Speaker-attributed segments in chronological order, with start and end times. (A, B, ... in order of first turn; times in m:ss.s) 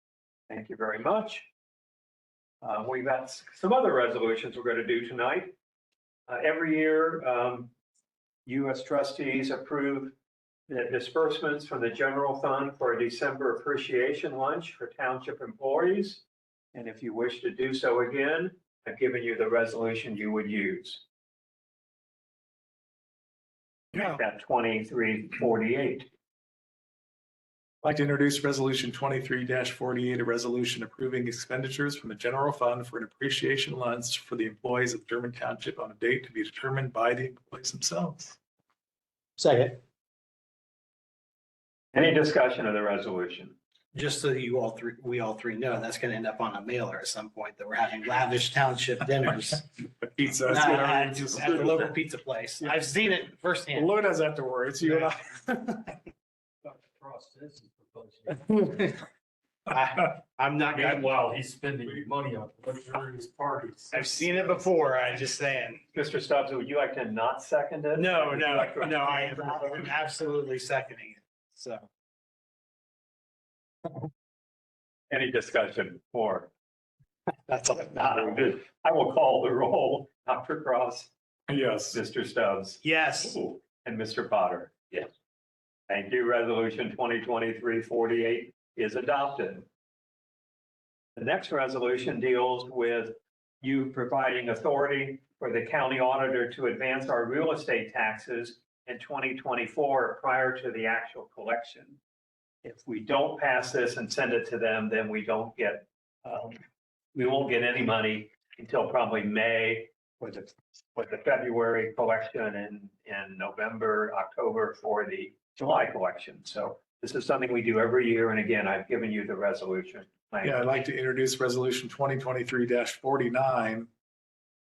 0:00.5-0:01.5 A
0:02.6-0:05.6 A
0:06.3-0:07.7 A
0:08.5-0:10.2 A
0:10.7-0:16.2 A
0:16.7-0:21.0 A
0:23.9-0:24.2 B
0:23.9-0:26.1 A
0:27.8-0:38.4 B
0:39.4-0:39.8 C
0:41.9-0:43.6 A
0:43.9-0:49.9 C
0:50.0-0:51.9 B
0:50.4-0:53.9 C
0:53.7-0:55.4 B
0:54.8-0:56.0 C
0:56.6-0:58.9 D
0:58.5-0:59.0 C
0:59.7-1:01.1 C
1:00.7-1:04.6 D
1:03.9-1:05.8 C
1:05.9-1:09.9 A
1:08.0-1:11.9 C
1:15.1-1:16.5 A
1:17.5-1:18.4 C
1:17.7-1:21.1 A
1:21.5-1:22.0 B
1:21.9-1:25.1 A
1:22.8-1:23.4 C
1:25.9-1:29.7 A
1:31.2-1:42.0 A
1:42.6-1:46.6 A
1:47.1-2:00.6 A
2:00.4-2:03.9 B